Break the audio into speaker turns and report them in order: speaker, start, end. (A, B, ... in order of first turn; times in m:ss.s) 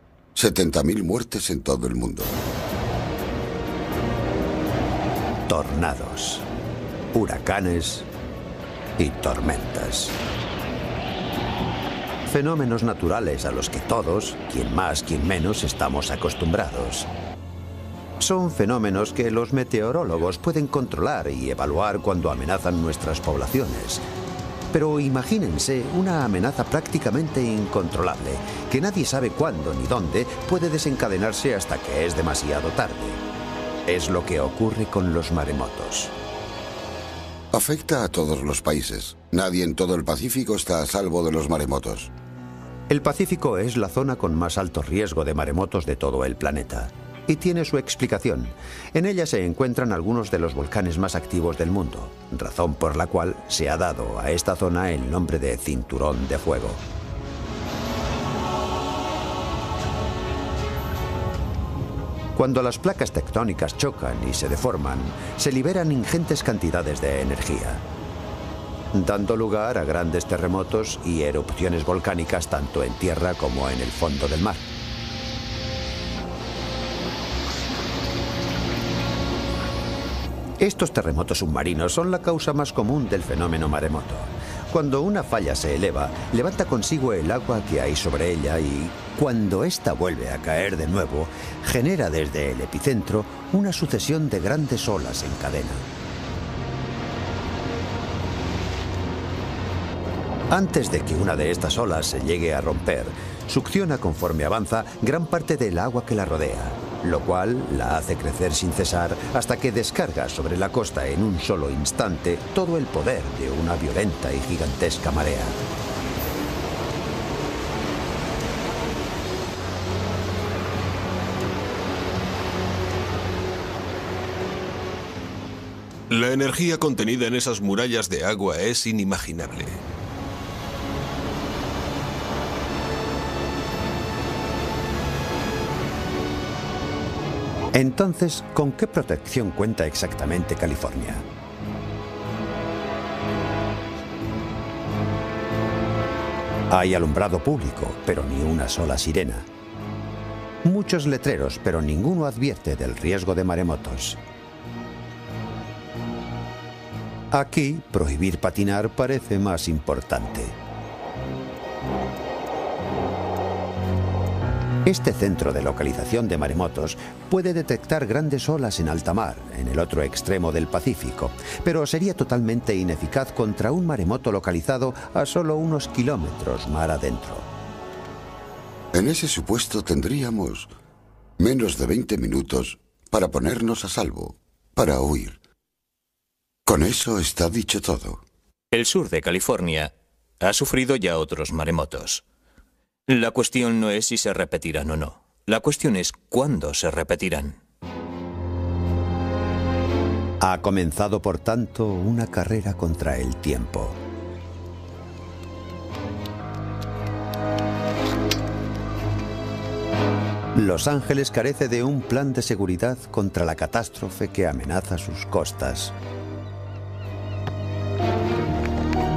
0:00.4-0:02.4 A
0:05.5-0:06.5 B
0:07.1-0:08.1 B
0:09.0-0:10.2 B
0:12.3-0:17.1 B
0:18.2-0:24.0 B
0:24.7-0:33.2 B
0:33.9-0:36.1 B
0:37.5-0:42.1 A
0:42.9-0:56.8 B
1:02.4-1:07.8 B
1:08.9-1:14.7 B
1:20.6-1:35.8 B
1:40.5-1:55.6 B
2:06.1-2:09.8 C
2:17.7-2:21.3 B
2:26.7-2:29.5 B
2:30.6-2:34.2 B
2:37.3-2:40.6 B
2:44.8-2:57.5 B
2:58.9-3:00.7 A
3:01.4-3:05.4 A
3:06.7-3:08.2 A
3:08.7-3:12.2 D
3:13.1-3:17.6 D
3:20.4-3:24.0 B
3:30.6-3:35.9 B